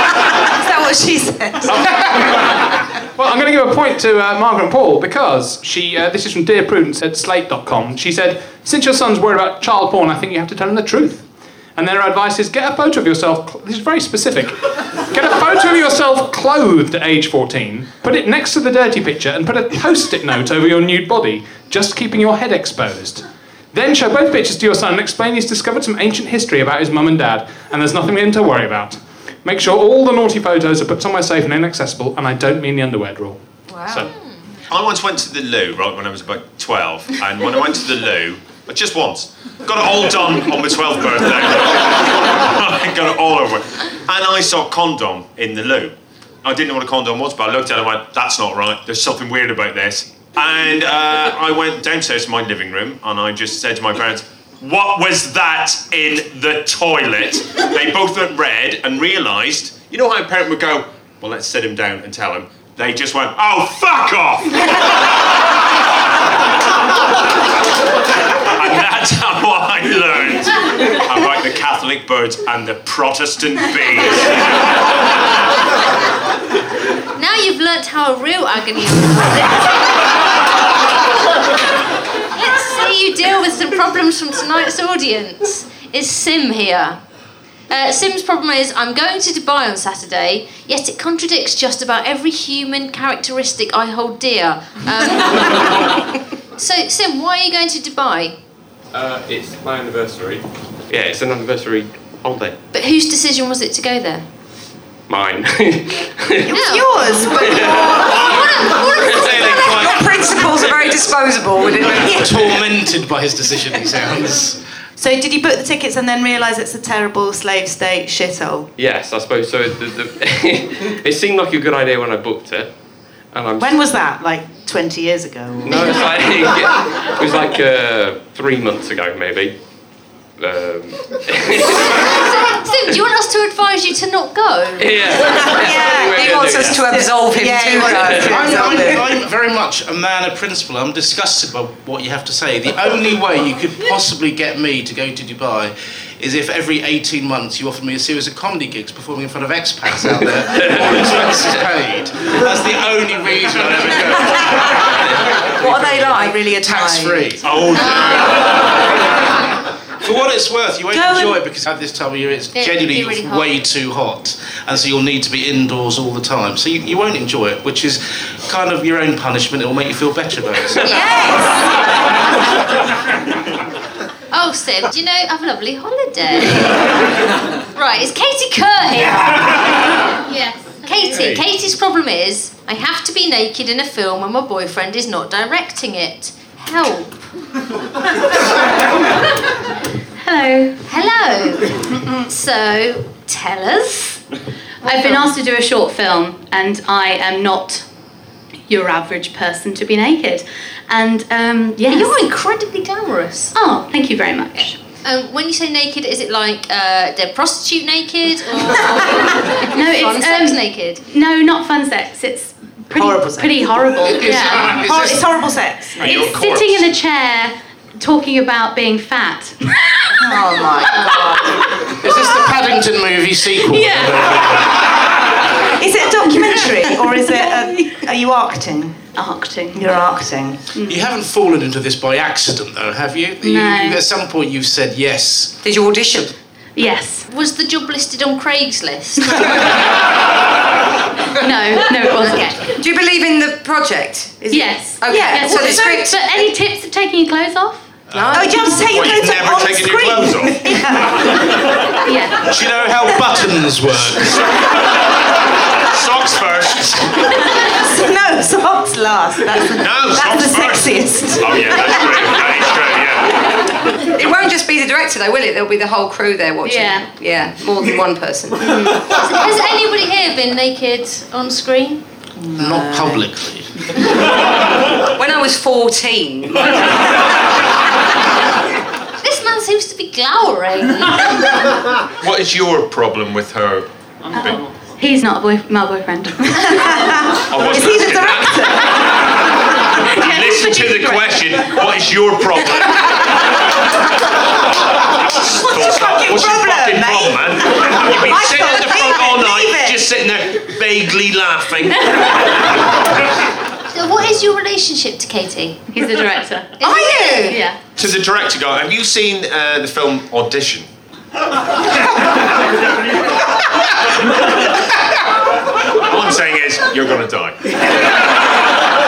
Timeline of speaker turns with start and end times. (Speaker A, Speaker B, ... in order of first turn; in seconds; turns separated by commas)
Speaker A: 0.5-1.9, Speaker B: 1.8-34.1, Speaker C: 33.7-34.1, Speaker D: 34.7-64.7, Speaker D: 68.5-74.4, Speaker E: 77.2-79.7, Speaker E: 82.3-87.0, Speaker E: 87.7-96.0, Speaker E: 96.6-98.4, Speaker F: 98.9-102.6, Speaker E: 102.7-104.3, Speaker F: 105.1-108.0, Speaker A: 106.4-108.4, Speaker E: 106.5-106.9, Speaker E: 108.0-109.9, Speaker F: 109.0-109.4, Speaker G: 109.2-110.1, Speaker C: 109.6-112.4, Speaker G: 111.9-114.6, Speaker A: 115.0-118.7, Speaker F: 118.8-122.7, Speaker F: 123.3-123.8, Speaker A: 123.6-126.2, Speaker F: 125.6-129.6, Speaker F: 130.4-132.2, Speaker E: 131.8-135.0, Speaker F: 134.8-136.8, Speaker A: 135.4-139.2, Speaker C: 135.6-138.3, Speaker G: 138.1-157.8, Speaker F: 150.6-150.9, Speaker A: 155.6-157.4, Speaker D: 157.4-158.6, Speaker E: 157.8-158.3, Speaker G: 160.0-170.9, Speaker A: 160.9-161.4, Speaker E: 162.5-163.6, Speaker E: 170.8-171.4, Speaker A: 170.9-171.5, Speaker E: 174.3-176.9, Speaker E: 177.7-179.6, Speaker H: 180.3-180.6, Speaker E: 180.8-187.3, Speaker H: 190.2-190.8, Speaker E: 190.8-194.2, Speaker H: 194.8-197.8, Speaker E: 194.8-195.4, Speaker H: 198.7-202.2, Speaker E: 201.8-203.6, Speaker H: 203.6-204.8, Speaker E: 205.0-211.0, Speaker H: 209.7-214.8, Speaker A: 212.9-216.3, Speaker G: 214.1-215.3, Speaker H: 216.0-220.2, Speaker D: 216.0-216.8, Speaker A: 220.2-221.5, Speaker H: 220.8-221.6, Speaker G: 221.9-224.9, Speaker H: 223.6-224.4, Speaker A: 225.6-229.1, Speaker H: 227.2-227.9, Speaker H: 229.2-229.9, Speaker A: 229.7-230.6, Speaker G: 230.9-236.3, Speaker H: 233.4-234.0, Speaker C: 235.6-236.3, Speaker H: 236.8-237.3, Speaker E: 237.3-239.6, Speaker H: 241.4-242.8, Speaker C: 242.3-246.4, Speaker H: 244.5-247.9, Speaker A: 245.1-245.9, Speaker C: 248.1-248.7, Speaker A: 248.3-251.4, Speaker D: 248.8-251.0, Speaker H: 252.0-252.5, Speaker G: 252.4-254.4, Speaker D: 254.3-254.8, Speaker D: 255.9-257.5, Speaker A: 257.6-262.5, Speaker D: 259.8-263.7, Speaker C: 264.1-268.9, Speaker H: 266.6-267.1, Speaker H: 268.7-269.0, Speaker E: 269.0-272.0, Speaker A: 272.4-273.3, Speaker G: 272.6-273.7, Speaker C: 275.1-276.8, Speaker E: 279.2-281.5, Speaker D: 282.2-284.6, Speaker H: 284.3-287.3, Speaker A: 286.7-289.4, Speaker D: 287.5-288.9, Speaker D: 289.9-293.2, Speaker H: 290.1-291.3, Speaker D: 295.3-302.4, Speaker A: 295.6-300.1, Speaker E: 303.9-305.9, Speaker H: 305.9-306.8, Speaker E: 306.8-307.6, Speaker A: 306.8-307.6, Speaker H: 307.4-307.8, Speaker D: 308.0-310.9, Speaker D: 316.0-317.7